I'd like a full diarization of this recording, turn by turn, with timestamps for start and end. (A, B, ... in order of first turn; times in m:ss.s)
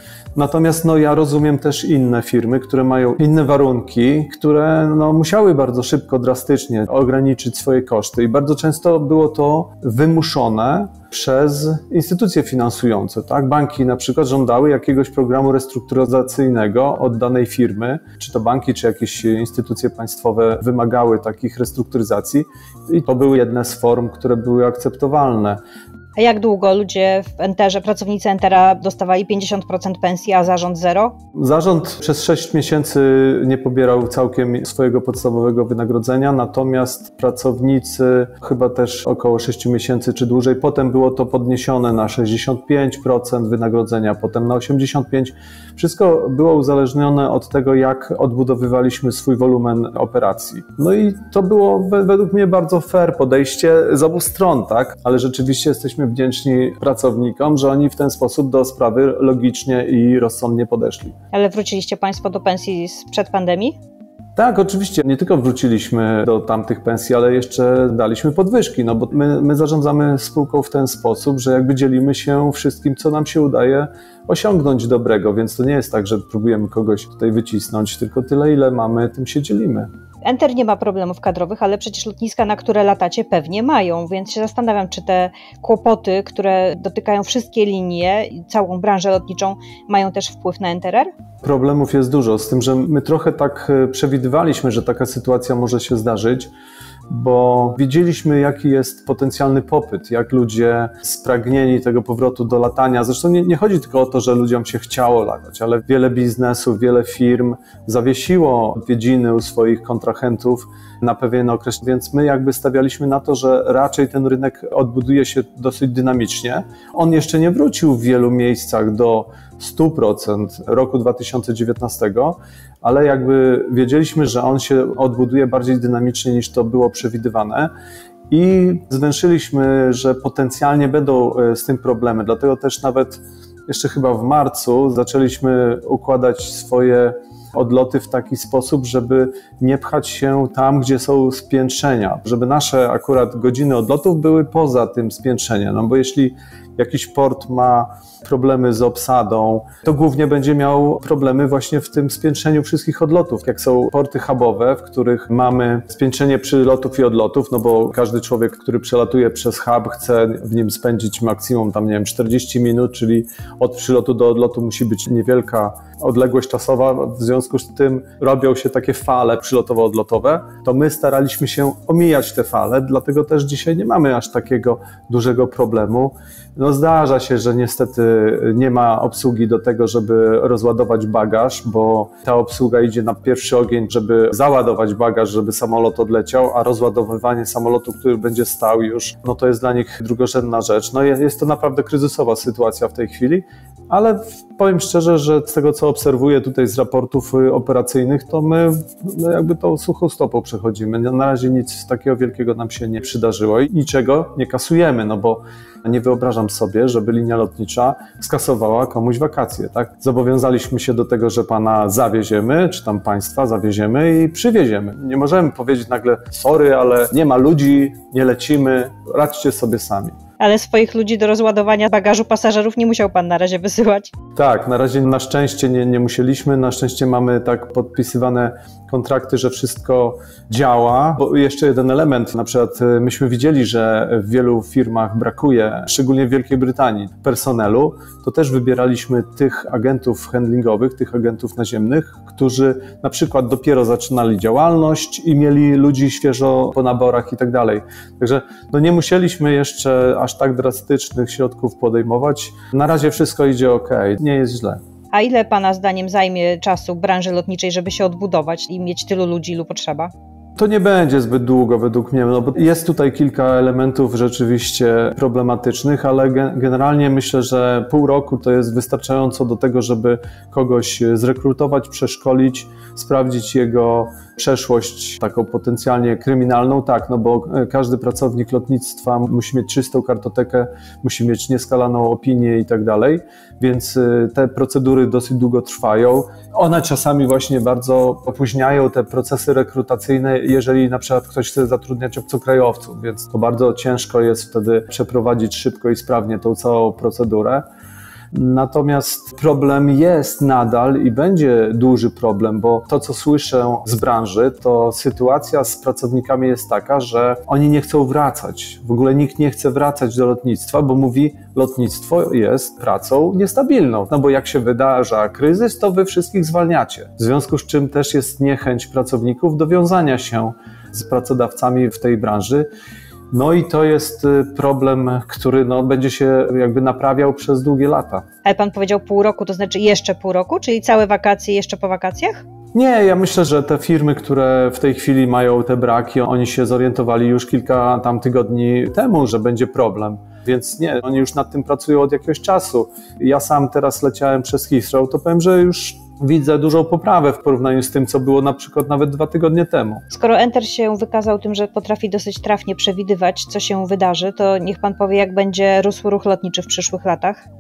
0:00.4-0:25.6 A
0:26.2-0:31.2 B
0:31.4-1:01.2 A
1:01.3-1:03.8 B
1:04.4-1:19.9 A
1:20.2-1:31.1 B
1:31.4-1:36.5 A
1:37.1-2:07.7 A
2:08.3-3:40.2 A
3:40.4-3:44.1 B
3:44.4-4:14.8 A
4:15.1-4:20.1 B
4:20.6-4:57.6 A
4:58.3-5:22.7 A
5:23.3-5:28.3 A
5:28.4-5:32.5 B
5:32.7-5:50.0 A
5:50.1-5:57.4 B